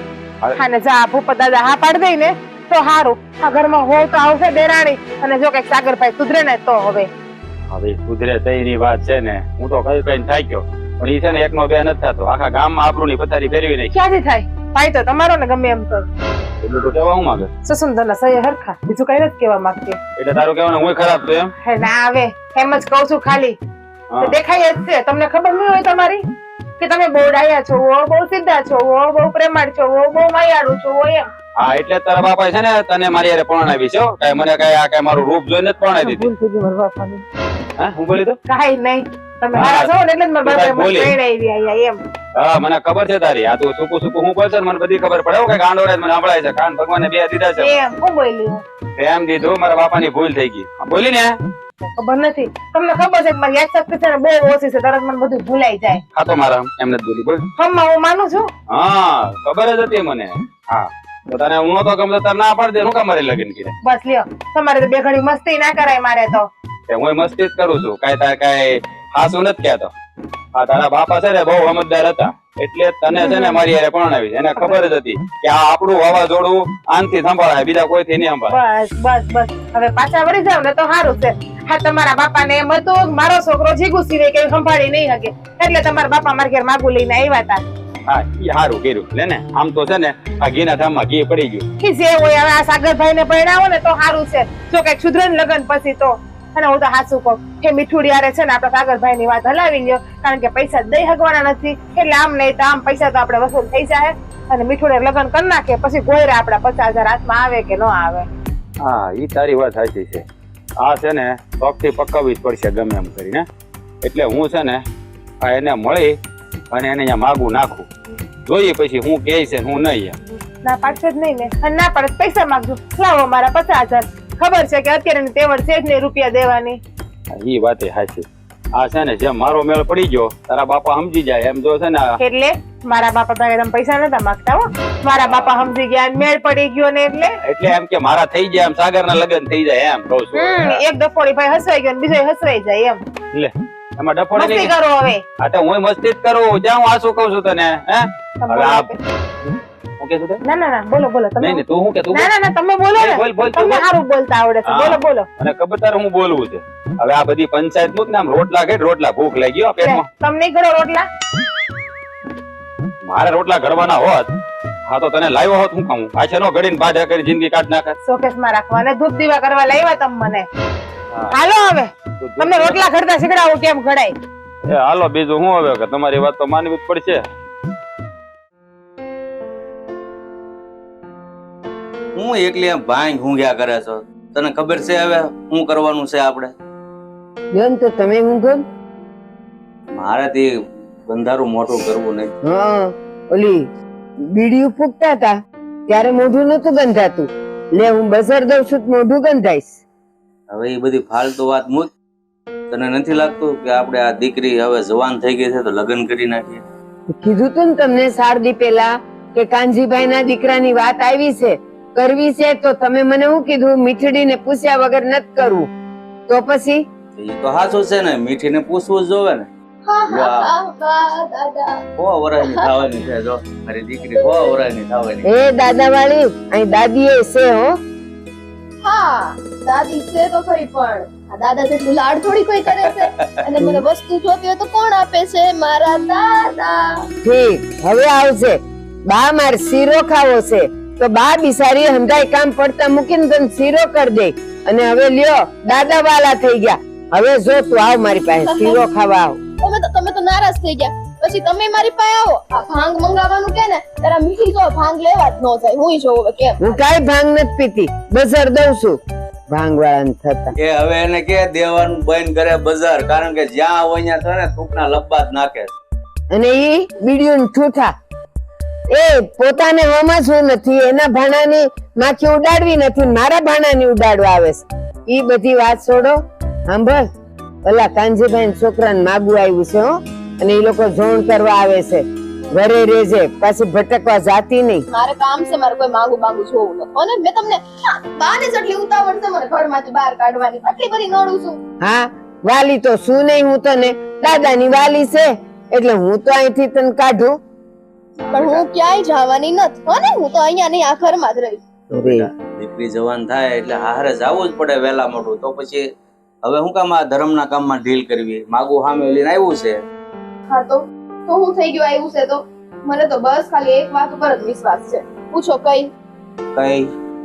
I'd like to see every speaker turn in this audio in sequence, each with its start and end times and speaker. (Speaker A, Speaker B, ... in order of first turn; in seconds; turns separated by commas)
Speaker A: 0.6-7.1, Speaker B: 7.7-13.9, Speaker A: 13.9-16.1, Speaker B: 16.6-17.5, Speaker A: 17.6-20.0, Speaker B: 20.2-21.5, Speaker A: 21.6-23.6, Speaker B: 24.1-24.3, Speaker A: 24.2-26.2, Speaker A: 26.8-31.2, Speaker B: 31.6-36.3, Speaker A: 36.0-37.2, Speaker B: 37.8-38.4, Speaker A: 38.5-42.0, Speaker B: 39.5-39.9, Speaker B: 40.4-41.1, Speaker B: 42.4-47.8, Speaker A: 47.6-48.6, Speaker B: 49.0-51.3, Speaker A: 52.0-56.0, Speaker B: 56.1-57.4, Speaker A: 57.6-58.5, Speaker B: 58.7-63.7, Speaker A: 63.8-66.5, Speaker B: 66.9-69.9, Speaker B: 70.5-78.5, Speaker A: 73.2-73.6, Speaker A: 78.5-87.6, Speaker B: 88.1-91.6, Speaker A: 91.8-108.3, Speaker B: 108.8-110.2, Speaker B: 110.8-113.5, Speaker B: 114.0-114.8, Speaker B: 115.4-116.1, Speaker B: 116.7-117.9, Speaker B: 118.5-120.2, Speaker A: 120.6-126.8, Speaker B: 127.3-128.2, Speaker B: 128.8-132.1, Speaker A: 132.2-137.3, Speaker B: 135.1-135.7, Speaker B: 137.4-140.8, Speaker A: 140.3-143.0, Speaker B: 143.3-144.7, Speaker A: 144.3-145.2, Speaker B: 145.4-148.9, Speaker A: 148.4-149.0, Speaker B: 150.0-150.4, Speaker A: 150.4-155.2, Speaker B: 151.4-152.3, Speaker B: 152.9-153.8, Speaker B: 154.7-160.0, Speaker A: 159.8-161.0, Speaker B: 163.0-164.3, Speaker B: 164.9-167.9, Speaker A: 168.0-170.5, Speaker A: 171.3-174.1, Speaker B: 172.2-172.8, Speaker B: 174.7-177.2, Speaker C: 182.2-186.5, Speaker D: 187.5-188.6, Speaker C: 189.9-190.5, Speaker C: 191.1-192.3, Speaker D: 192.4-193.6, Speaker D: 194.3-195.3, Speaker D: 195.9-199.8, Speaker C: 200.5-201.9, Speaker C: 202.7-206.6, Speaker D: 207.1-215.7, Speaker D: 216.3-216.8, Speaker C: 217.2-219.5, Speaker E: 219.8-221.8, Speaker C: 220.1-220.5, Speaker C: 222.0-225.3, Speaker E: 224.1-224.5, Speaker D: 225.2-227.7, Speaker E: 228.8-237.0, Speaker C: 232.7-233.3, Speaker D: 233.6-233.8, Speaker D: 237.2-238.6, Speaker D: 239.1-249.4, Speaker E: 248.4-248.8, Speaker E: 249.6-256.6, Speaker D: 256.6-259.0, Speaker D: 259.5-260.5, Speaker C: 260.6-265.7, Speaker D: 266.3-267.9, Speaker D: 268.9-277.0, Speaker D: 277.6-284.9, Speaker E: 284.9-291.6, Speaker D: 291.8-297.3, Speaker C: 298.2-298.7, Speaker E: 298.3-301.6, Speaker D: 301.9-302.3, Speaker C: 302.0-305.8, Speaker C: 306.4-309.8, Speaker E: 310.5-315.9, Speaker C: 316.5-316.9